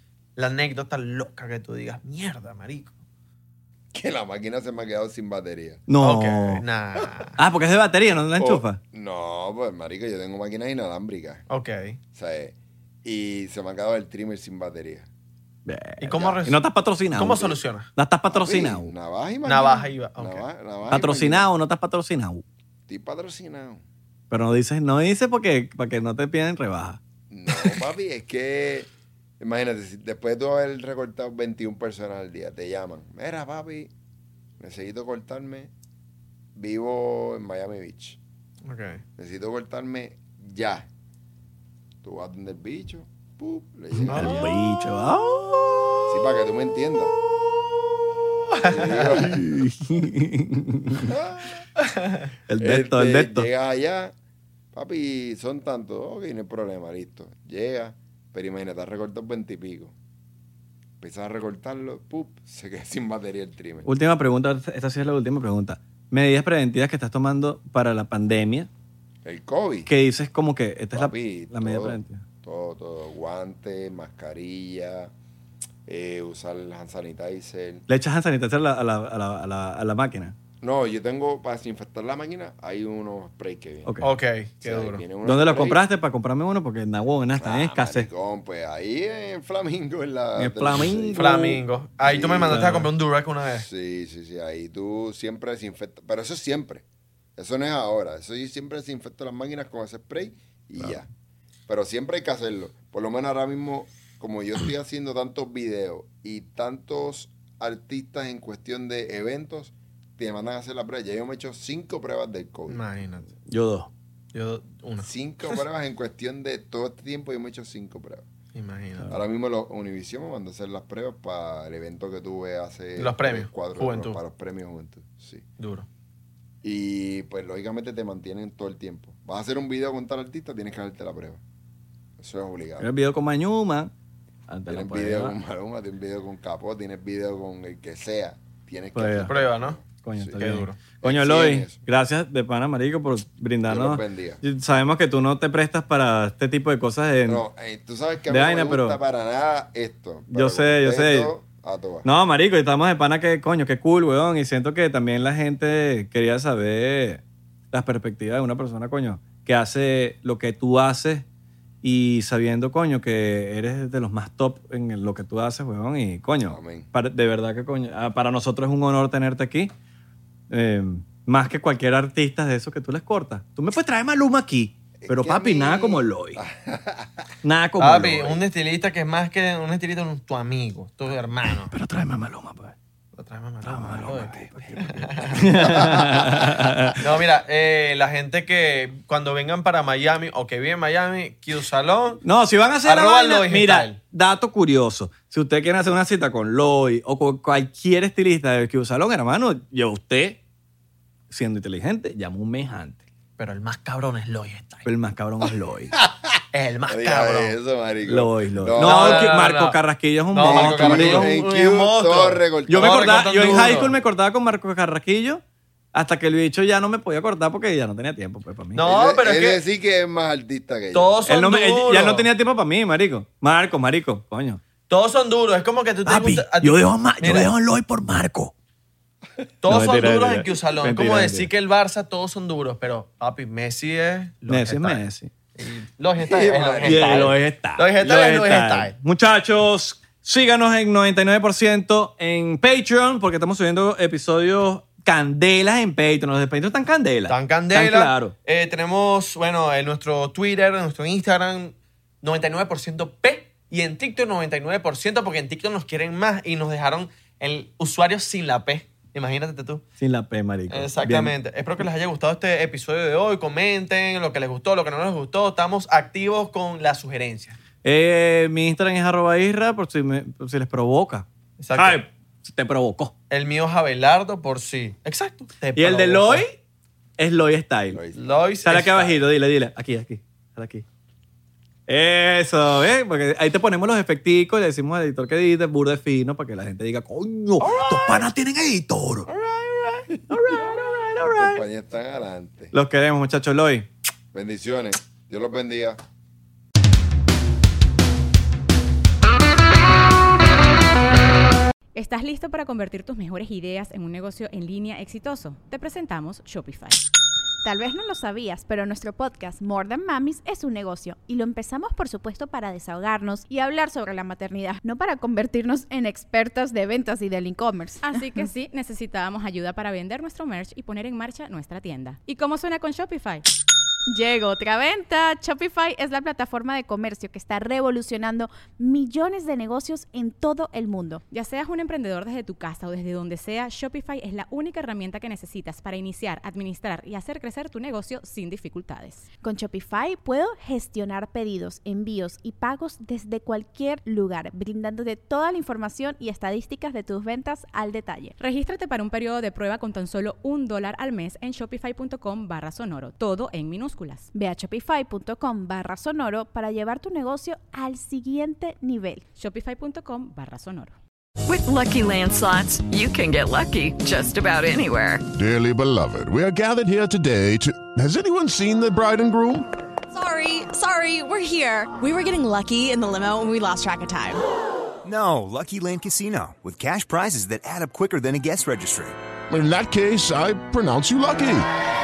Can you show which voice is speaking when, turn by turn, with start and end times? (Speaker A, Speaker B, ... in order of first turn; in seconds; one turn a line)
Speaker A: 0.4-3.0
Speaker B: 3.9-5.8
Speaker C: 5.9-6.6
Speaker A: 6.0-7.4
Speaker C: 7.4-8.8
Speaker B: 8.4-11.4
Speaker A: 11.5-12.0
Speaker B: 12.1-15.1
Speaker C: 15.7-18.9
Speaker A: 16.0-17.9
Speaker B: 16.1-16.4
Speaker B: 18.3-21.5
Speaker A: 19.4-20.5
Speaker C: 20.9-22.4
Speaker B: 22.9-23.8
Speaker C: 24.3-27.0
Speaker B: 27.3-33.9
Speaker B: 34.6-35.7
Speaker B: 36.5-38.2
Speaker A: 38.7-39.0
Speaker B: 39.2-40.9
Speaker B: 42.0-44.5
Speaker A: 44.1-44.5
Speaker C: 44.1-46.1
Speaker B: 46.1-47.1
Speaker A: 48.5-49.2
Speaker B: 48.6-49.5
Speaker C: 49.2-51.1
Speaker B: 51.0-51.6
Speaker A: 51.8-52.2
Speaker C: 52.5-53.5
Speaker B: 52.6-54.1
Speaker B: 54.7-59.9
Speaker B: 61.0-63.9
Speaker C: 63.9-68.7
Speaker B: 69.2-69.9
Speaker C: 69.9-72.2
Speaker B: 70.9-75.1
Speaker B: 75.9-77.8
Speaker C: 77.9-80.3
Speaker B: 80.6-83.9
Speaker A: 84.0-85.0
Speaker B: 84.6-85.8
Speaker C: 85.2-88.1
Speaker B: 87.4-91.3
Speaker C: 90.4-91.6
Speaker A: 91.2-93.7
Speaker B: 92.0-92.7
Speaker C: 92.5-92.9
Speaker B: 93.6-96.8
Speaker B: 97.4-101.1
Speaker B: 101.7-112.8
Speaker A: 112.7-113.3
Speaker C: 113.5-113.9
Speaker A: 114.3-115.6
Speaker B: 115.0-118.3
Speaker A: 118.5-119.1
Speaker B: 119.1-125.5
Speaker A: 123.0-124.2
Speaker A: 125.6-125.9
Speaker B: 126.6-131.4
Speaker B: 132.2-132.9
Speaker C: 132.8-133.9
Speaker C: 134.5-135.3
Speaker B: 134.7-140.0
Speaker C: 138.9-139.3
Speaker A: 139.3-139.8
Speaker C: 140.0-147.4
Speaker A: 140.3-140.8
Speaker B: 141.0-141.8
Speaker B: 143.7-144.4
Speaker B: 147.3-152.1
Speaker C: 148.3-149.0
Speaker C: 150.3-151.3
Speaker C: 152.0-161.2
Speaker C: 161.8-169.7
Speaker B: 166.4-166.9
Speaker C: 170.5-176.4
Speaker B: 175.0-177.3
Speaker C: 177.4-178.4
Speaker A: 177.8-181.7
Speaker C: 181.6-182.8
Speaker A: 183.2-186.2
Speaker C: 183.7-184.8
Speaker B: 184.9-186.9
Speaker C: 185.3-187.0
Speaker A: 187.0-192.2
Speaker C: 192.2-200.4
Speaker A: 192.8-194.0
Speaker C: 201.3-203.0
Speaker A: 203.4-204.9
Speaker C: 204.8-205.9
Speaker B: 206.0-206.4
Speaker A: 206.5-207.6
Speaker B: 206.9-209.4
Speaker C: 208.1-211.3
Speaker A: 208.8-209.8
Speaker A: 210.3-213.9
Speaker B: 210.4-213.8
Speaker C: 212.7-215.4
Speaker C: 215.9-218.8
Speaker A: 218.7-219.6
Speaker B: 218.8-221.2
Speaker A: 220.9-222.3
Speaker C: 221.3-224.6
Speaker A: 224.9-227.5
Speaker C: 226.1-228.5
Speaker A: 229.6-235.0
Speaker C: 229.7-231.5
Speaker C: 234.5-235.3
Speaker A: 235.6-238.9
Speaker B: 236.2-237.4
Speaker C: 236.8-248.3
Speaker A: 247.3-259.9
Speaker C: 260.0-261.3
Speaker A: 260.7-267.6
Speaker C: 267.8-273.1
Speaker A: 271.6-272.0
Speaker A: 273.3-276.5
Speaker C: 275.8-276.6
Speaker C: 277.2-278.0
Speaker B: 277.9-278.3
Speaker A: 278.1-279.2
Speaker C: 278.6-280.9
Speaker C: 281.9-289.3
Speaker A: 287.6-288.2
Speaker A: 289.3-290.1
Speaker C: 290.2-291.6
Speaker B: 291.2-292.7
Speaker C: 292.7-293.9
Speaker B: 294.3-296.0
Speaker D: 301.9-307.0
Speaker E: 307.6-318.4
Speaker D: 318.0-323.4
Speaker E: 324.1-331.2
Speaker D: 331.3-339.3
Speaker E: 339.4-348.4
Speaker D: 348.4-354.3
Speaker E: 354.3-359.2
Speaker D: 359.4-361.0
Speaker F: 361.5-365.2
Speaker G: 365.3-369.7
Speaker H: 370.1-374.4
Speaker I: 375.0-379.1
Speaker G: 379.5-381.7